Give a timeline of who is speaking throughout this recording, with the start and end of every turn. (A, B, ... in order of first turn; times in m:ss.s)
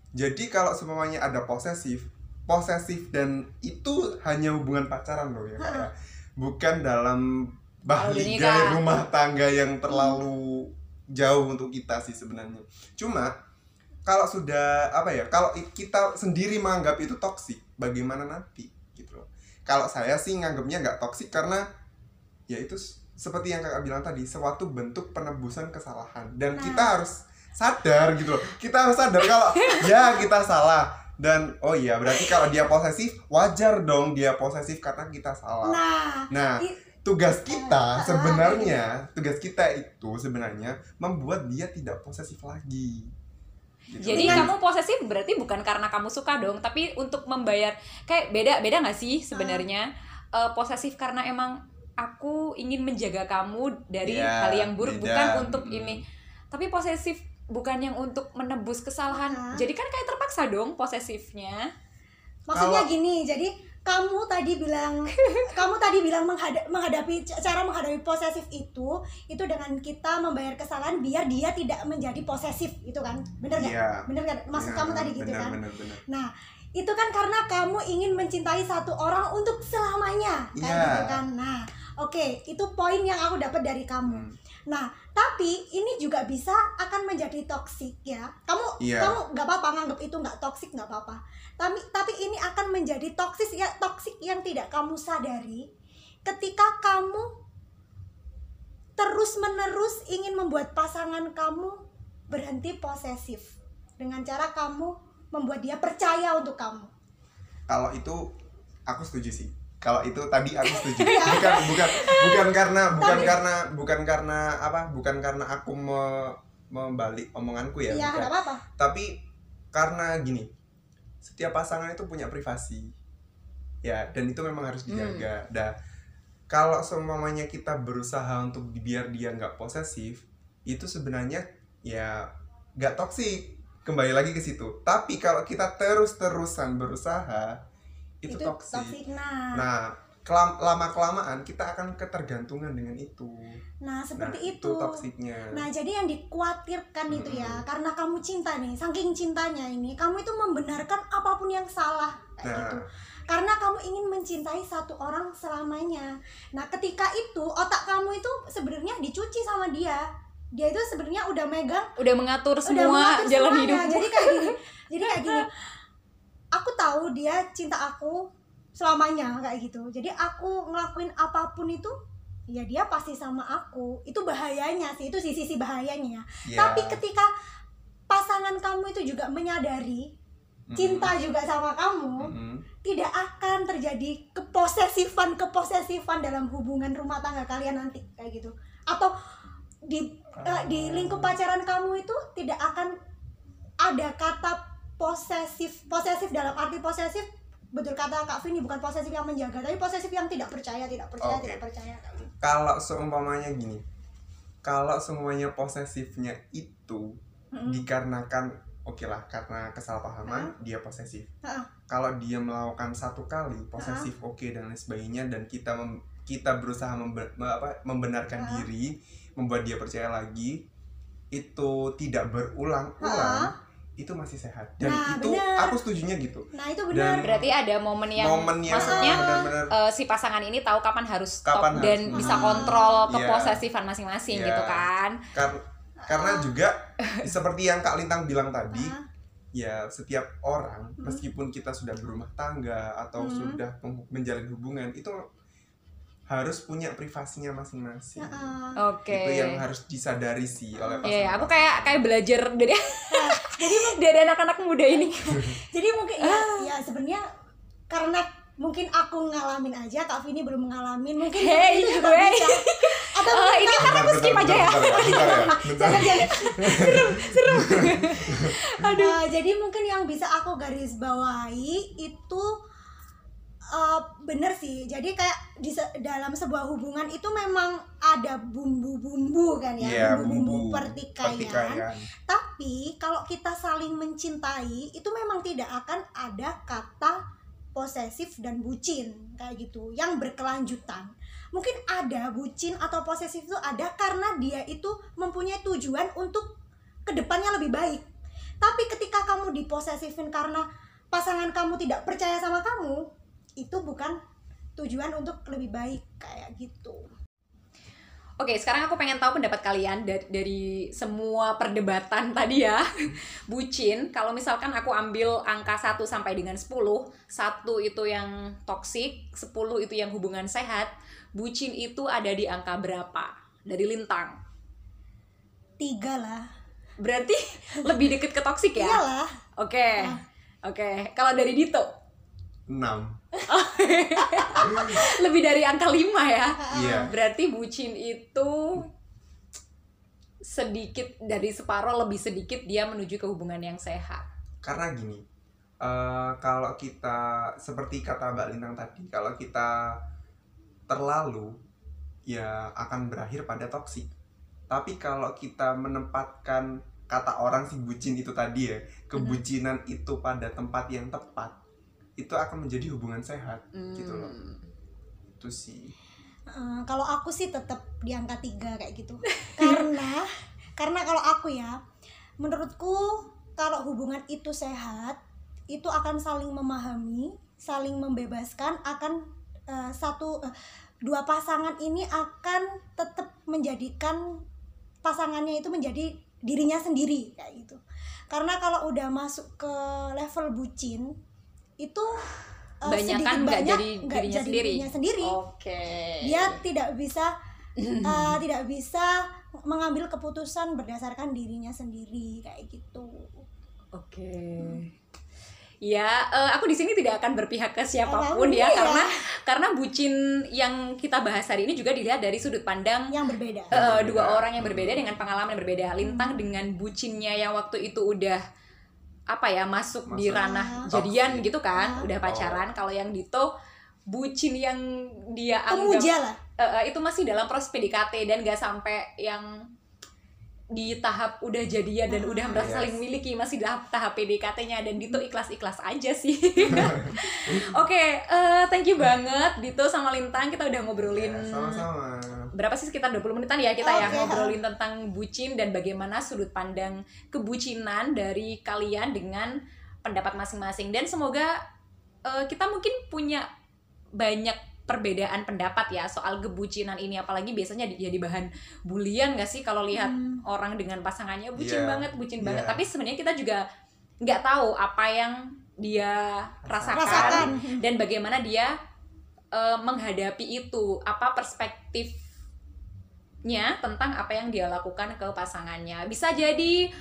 0:00.2-0:13.3 A
0:05.6-0:05.9 B
0:07.9-0:08.8 C
0:09.9-0:10.2 B
0:14.1-0:21.6 A
0:22.5-0:35.8 A
0:26.6-0:27.0 B
0:29.6-0:29.9 C
0:35.6-0:36.8 B
0:36.3-0:43.1 A
0:37.5-0:38.8 B
0:43.9-0:44.5 A
0:44.0-1:01.7 C
0:44.1-0:44.5 B
0:49.3-0:49.7 B
0:54.0-0:56.0 A
0:59.1-0:59.7 B
1:02.5-1:35.6 B
1:02.5-1:02.9 A
1:05.2-1:05.5 C
1:13.6-1:16.0 A
1:20.6-1:21.2 A
1:24.1-1:24.4 A
1:28.8-1:29.2 A
1:36.3-1:37.3 B
1:39.0-1:41.8 B
1:42.3-1:46.9 B
1:47.7-1:48.2 A
1:48.9-1:59.2 A
1:50.6-1:52.5 C
1:51.0-1:51.5 B
1:53.0-1:53.4 B
1:57.9-1:58.6 B
1:59.7-2:00.5 A
2:01.2-2:02.9 A
2:03.8-2:05.7 A
2:04.9-2:05.3 C
2:06.5-2:17.6 A
2:18.2-2:19.0 A
2:18.3-2:19.7 B
2:19.5-2:23.6 A
2:23.8-2:40.0 B
2:24.2-2:25.6 A
2:27.1-2:27.6 A
2:32.4-2:32.8 A
2:40.6-2:41.9 B
2:42.0-2:44.6 C
2:42.6-2:45.5 B
2:45.2-2:45.4 C
2:46.6-2:48.2 B
2:48.8-2:51.9 B
2:52.5-2:57.3 B
2:56.5-2:57.0 A
2:58.1-3:00.0 B
3:00.7-3:01.1 A
3:00.8-3:09.1 B
3:02.2-3:02.7 A
3:09.9-3:12.9 B
3:10.4-3:11.3 A
3:13.8-3:22.3 B
3:21.2-3:21.6 A
3:22.4-3:23.8 A
3:24.6-3:31.3 A
3:27.5-3:27.9 B
3:30.3-3:30.5 B
3:31.4-3:31.7 B
3:31.9-3:40.6 A
3:33.8-3:34.1 B
3:38.4-3:38.7 B
3:41.3-3:47.5 A
3:43.0-3:43.5 B
3:44.8-3:45.8 B
3:46.5-3:47.4 B
3:47.2-3:55.2 C
3:48.2-3:49.8 A
3:48.7-3:49.5 B
3:51.4-3:53.6 A
3:52.1-3:53.1 B
3:54.3-3:59.0 A
3:56.0-3:56.6 B
3:58.7-3:59.0 B
3:59.6-4:05.2 A
4:01.0-4:01.3 B
4:03.2-4:03.6 B
4:06.3-4:08.5 A
4:08.2-4:08.8 B
4:08.8-4:09.6 C
4:09.1-4:12.0 A
4:10.8-4:11.1 B
4:11.0-4:15.5 C
4:13.1-4:14.0 B
4:15.1-4:17.2 B
4:16.2-4:16.7 C
4:17.9-4:26.9 B
4:21.3-4:29.2 C
4:23.8-4:28.4 A
4:29.0-4:32.4 B
4:33.8-4:47.2 B
4:39.8-4:42.1 A
4:47.8-4:56.5 B
4:57.1-4:58.1 B
4:58.6-5:03.0 B
5:03.6-5:04.2 B
5:04.8-5:07.1 B
5:08.4-5:24.4 C
5:25.8-5:26.5 B
5:27.0-5:29.0 C
5:28.8-5:29.3 B
5:29.6-5:31.9 C
5:32.7-5:33.2 A
5:33.5-5:38.9 C
5:36.6-5:37.1 B
5:36.7-5:37.2 A
5:40.4-5:44.2 C
5:44.6-5:45.2 A
5:45.8-5:50.0 A
5:50.9-5:51.5 A
5:52.3-5:54.1 A
5:54.7-6:01.6 A
5:59.2-5:59.4 C
6:02.2-6:04.3 A
6:03.7-6:04.6 C
6:05.4-6:05.9 A
6:06.5-6:10.3 B
6:09.3-6:09.9 C
6:10.8-6:11.8 B
6:12.4-6:15.2 B
6:15.7-6:19.2 B
6:19.7-6:20.3 B
6:21.1-6:24.2 B
6:25.0-6:27.8 B
6:28.3-6:31.1 B
6:31.8-6:32.2 B
6:32.8-6:35.4 B
6:32.9-6:36.6 C
6:36.2-6:37.3 B
6:37.8-6:38.4 C
6:38.0-6:43.4 B
6:43.9-6:44.9 C
6:45.8-6:53.1 C
6:48.1-6:49.1 B
6:53.1-6:53.8 B
6:53.7-6:58.4 C
6:53.7-6:55.0 A
6:56.0-6:56.4 B
6:59.3-7:03.5 C
7:00.1-7:01.5 A
7:00.4-7:00.9 B
7:01.7-7:02.1 B
7:02.2-7:02.6 A
7:04.1-7:09.5 C
7:05.7-7:06.4 B
7:10.7-7:21.8 C
7:12.1-7:12.7 B
7:12.6-7:13.0 A
7:16.7-7:16.9 A
7:21.1-7:22.5 A
7:22.5-7:31.5 C
7:23.8-7:24.6 B
7:24.0-7:24.3 A
7:32.3-7:33.5 C
7:34.2-7:43.6 C
7:39.9-7:40.4 B
7:41.6-7:42.8 A
7:44.2-7:48.7 C
7:46.7-7:47.6 A
7:46.9-7:47.8 B
7:49.5-7:52.1 C
7:53.4-7:56.8 C